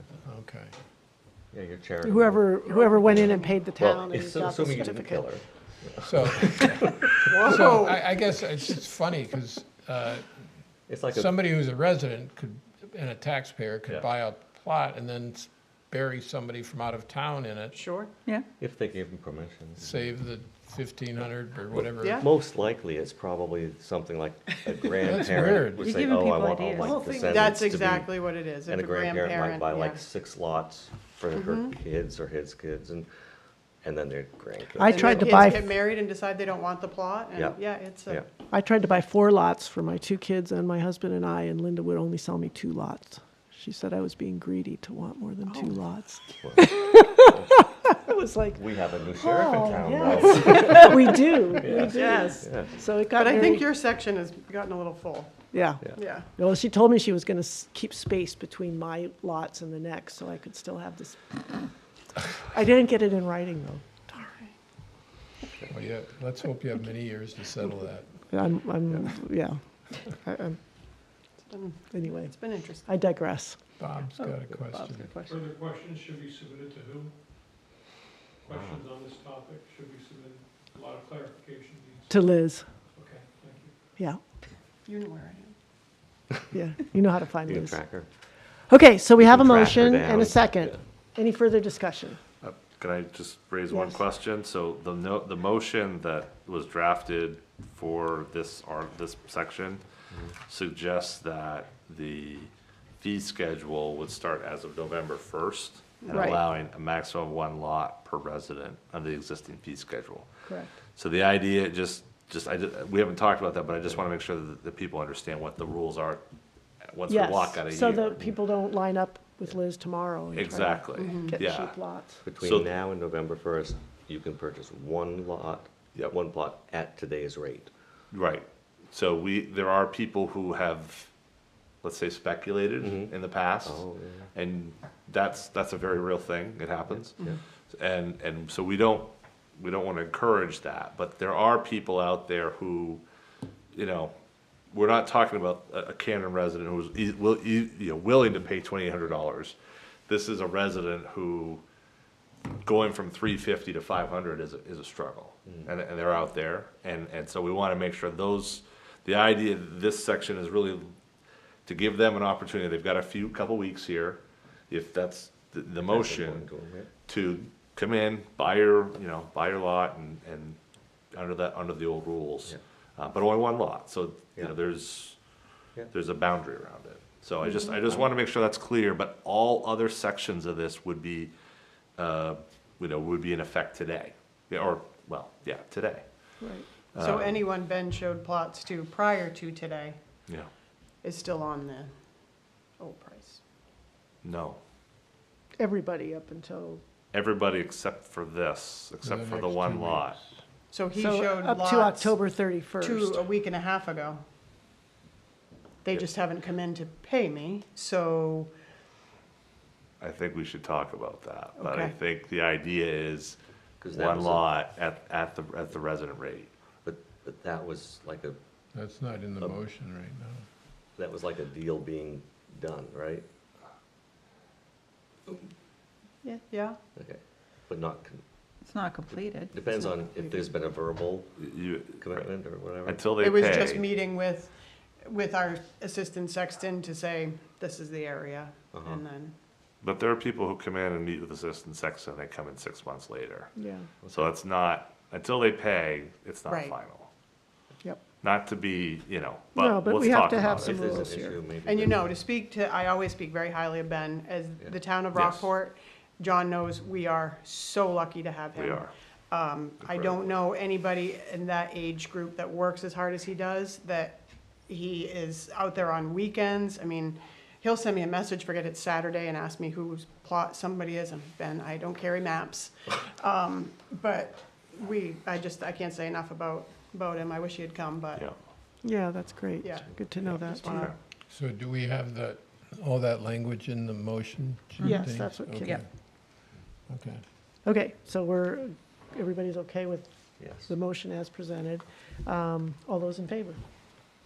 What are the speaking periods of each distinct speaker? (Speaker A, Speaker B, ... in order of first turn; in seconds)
Speaker A: 0.2-0.7, 6.0-10.3, 11.1-17.8, 19.8-22.2, 25.0-25.9, 65.7-68.2, 73.8-75.1, 199.0-200.3, 218.7-220.4, 281.3-285.8, 286.9-287.2
Speaker B: 1.5-2.5, 3.0-6.8, 10.9-11.3, 18.6-20.0, 22.2-33.1, 33.8-35.3, 37.3-38.3, 46.4-47.6, 48.5-52.8, 78.5-78.8, 87.4-88.1, 89.2-90.8, 122.2-127.7, 132.8-133.1, 133.6-134.3, 136.9-137.4, 165.9-166.9, 213.8-214.4, 216.8-218.4, 221.0-223.2, 226.9-228.2, 229.5-231.3, 232.0-233.0, 238.7-239.0, 250.6-252.0, 290.4-290.7
Speaker C: 2.0-5.3, 34.8-35.6, 38.5-48.6, 49.2-53.6, 55.5-55.8, 56.3-61.4, 62.4-64.4, 68.3-70.6, 71.9-73.6, 82.1-82.7, 86.5-87.8, 88.7-92.2, 93.7-94.0, 110.5-110.7, 117.1-122.2, 186.4-186.7, 195.6-196.8, 200.9-203.2, 243.6-243.9, 249.5-251.4, 278.8-280.9, 284.8-285.8, 287.6-293.6
Speaker D: 2.7-3.5, 7.2-8.0, 17.7-18.1, 26.9-30.0, 31.3-31.7, 34.9-38.2, 52.0-52.3, 53.1-56.3, 71.5-72.9, 84.8-85.5, 106.0-106.4, 121.0-121.3, 187.0-190.0, 191.0-191.9, 192.8-193.4, 200.7-202.1, 202.8-204.2, 205.8-208.5, 211.6-211.9, 226.3-226.8, 233.2-234.5, 235.0-239.3, 251.6-278.2, 279.6-280.9
Speaker E: 25.8-27.4, 74.2-75.4, 228.6-229.6
Speaker F: 75.2-77.1, 78.4-82.3, 82.9-83.7
Speaker G: 92.4-99.8, 100.5-110.3, 110.9-116.2, 116.9-118.3, 120.3-121.8, 122.4-122.7, 128.1-131.1, 131.8-137.2, 137.7-143.0, 143.7-144.1, 144.7-149.6, 150.1-151.6, 152.6-160.9, 161.7-166.4, 167.1-170.6, 171.1-175.2, 175.9-181.3, 182.0-186.0, 186.9-187.4, 194.2-194.6, 197.1-200.2, 210.0-213.4, 213.9-216.5, 231.4-232.3, 232.8-233.8, 239.8-243.5, 244.1-247.1, 248.2-251.0, 255.1-255.5, 258.5-258.9, 259.8-260.1, 280.6-280.9